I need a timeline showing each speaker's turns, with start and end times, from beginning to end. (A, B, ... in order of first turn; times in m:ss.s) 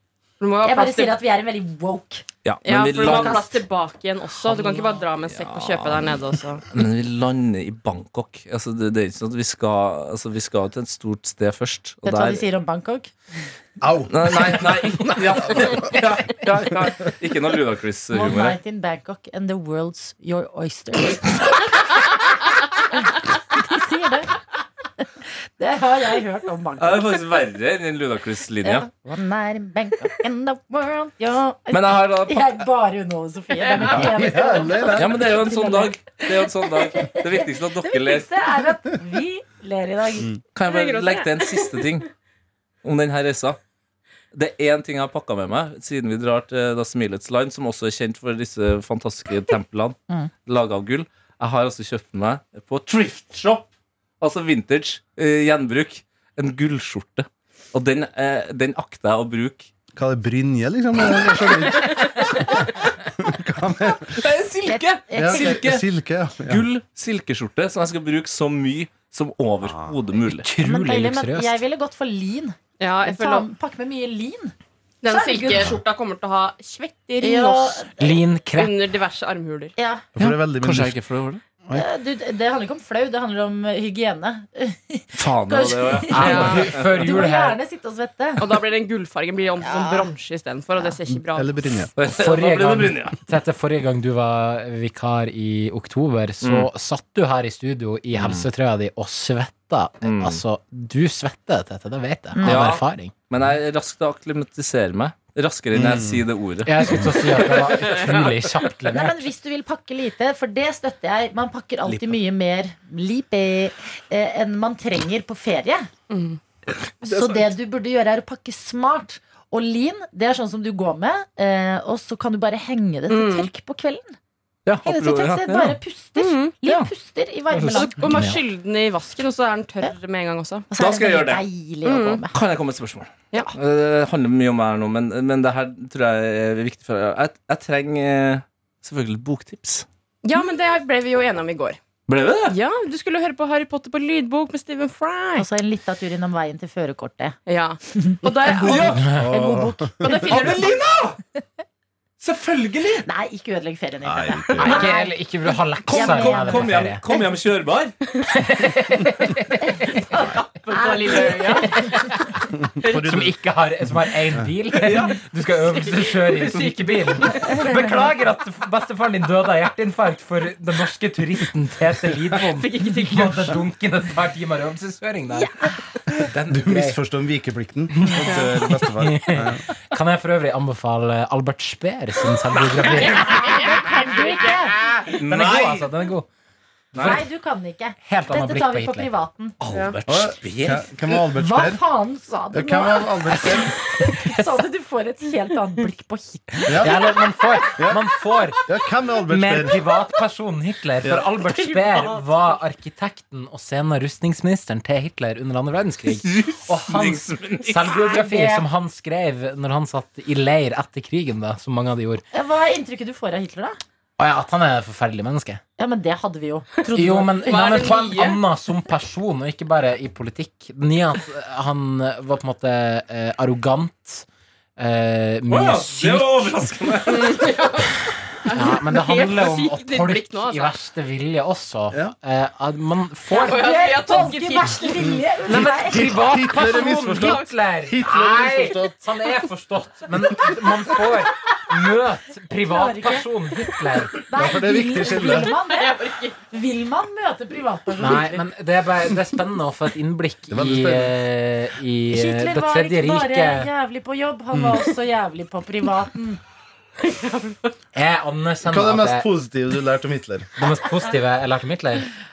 0:00.4-0:01.2 A
0:00.6-0:03.6 B
0:02.4-0:03.4 C
0:02.6-0:06.7 A
0:04.5-0:05.1 B
0:05.2-0:12.5 C
0:12.0-0:13.1 B
0:13.8-0:15.1 D
0:14.1-0:18.6 C
0:18.1-0:21.9 B
0:22.9-0:24.4 B
0:25.2-0:27.2 B
0:26.8-0:28.9 C
0:28.6-0:40.4 B
0:31.7-0:32.6 C
0:33.6-0:34.0 A
0:33.9-0:35.2 D
0:34.9-0:38.4 C
0:40.5-0:42.1 C
0:40.6-0:42.0 A
0:42.8-0:43.6 C
0:44.3-0:53.7 C
0:54.2-0:59.7 C
1:00.0-1:04.2 D
1:04.2-1:05.8 C
1:04.6-1:05.6 B
1:05.1-1:06.6 D
1:06.4-1:10.5 C
1:09.6-1:09.9 D
1:10.3-1:11.6 E
1:10.6-1:14.5 B
1:12.8-1:13.5 A
1:15.0-1:17.9 A
1:15.0-1:15.8 B
1:17.2-1:18.2 B
1:18.0-1:18.7 E
1:18.5-1:19.7 A
1:19.8-1:20.0 B
1:20.1-1:21.0 D
1:20.6-1:21.4 C
1:21.7-1:28.6 B
1:25.1-1:27.2 C
1:26.1-1:27.6 E
1:26.1-1:26.7 A
1:28.4-1:31.9 A
1:29.6-1:30.1 B
1:31.1-1:31.9 D
1:32.0-1:33.2 C
1:32.0-1:43.1 E
1:36.4-1:36.7 C
1:38.1-1:38.5 C
1:40.0-1:40.4 C
1:42.3-1:42.8 B
1:42.4-1:47.0 C
1:45.7-1:46.2 D
1:46.6-1:49.2 E
1:47.3-1:48.3 A
1:48.9-1:55.9 B
1:51.9-1:52.2 E
1:56.1-1:56.4 A
1:57.0-2:04.2 B
1:57.1-1:57.4 C
2:03.1-2:03.5 A
2:04.6-2:05.8 C
2:04.8-2:08.2 B
2:06.2-2:06.6 A
2:07.5-2:08.4 E
2:07.9-2:10.7 A
2:10.7-2:12.4 B
2:10.8-2:11.4 C
2:11.8-2:12.2 A
2:12.2-2:19.8 C
2:20.2-2:21.8 A
2:22.1-2:22.6 C
2:22.5-2:25.5 A
2:25.4-2:27.4 B
2:27.4-2:29.0 A
2:27.9-2:30.5 B
2:28.4-2:30.2 D
2:28.6-2:29.1 C
2:29.0-2:29.2 E
2:30.0-2:30.9 A
2:30.2-2:31.2 C
2:32.2-2:33.0 C
2:33.0-2:35.2 B
2:34.0-2:34.9 D
2:34.6-2:37.0 E
2:35.9-2:38.0 C
2:35.9-2:37.2 B
2:38.2-2:40.0 E
2:40.0-2:41.9 A
2:40.7-2:41.7 B
2:41.1-2:55.5 E
2:42.8-2:43.4 D
2:44.8-2:45.2 C
2:52.5-2:53.6 A
2:55.3-2:55.7 B
2:56.3-2:57.0 E
2:56.5-2:59.6 D
2:57.9-3:03.6 E
3:03.0-3:03.6 A
3:03.1-3:04.8 B
3:04.8-3:06.3 E
3:05.1-3:05.9 C
3:06.9-3:07.2 C
3:06.9-3:07.3 E
3:07.0-3:09.6 B
3:08.0-3:09.1 E
3:09.6-3:10.9 C
3:10.1-3:11.8 D
3:11.3-3:17.2 B
3:12.5-3:13.7 D
3:13.3-3:14.6 E
3:16.7-3:17.0 D
3:16.8-3:18.6 E
3:18.6-3:19.8 D
3:19.3-3:32.2 E
3:21.0-3:21.3 D
3:26.1-3:27.9 C
3:27.9-3:28.6 B
3:32.3-3:33.8 B
3:34.2-3:35.6 E
3:35.8-3:37.8 B
3:36.9-3:44.2 E
3:37.4-3:38.4 A
3:44.8-3:46.6 E
3:45.5-3:47.4 C
3:47.0-3:50.8 A
3:48.5-3:53.6 E
3:53.3-3:55.0 A
3:53.4-3:56.1 B
3:55.1-3:58.9 D
3:55.4-4:04.1 E
3:57.1-3:57.5 A
4:02.6-4:03.3 B
4:04.3-4:06.0 B
4:04.3-4:05.5 D
4:05.3-4:06.4 A
4:06.5-4:08.4 B
4:08.0-4:13.7 E
4:10.5-4:11.2 D
4:12.1-4:16.4 B
4:14.5-4:14.8 D
4:17.0-4:17.7 A
4:17.9-4:19.3 E
4:18.6-4:20.5 D
4:20.6-4:22.1 E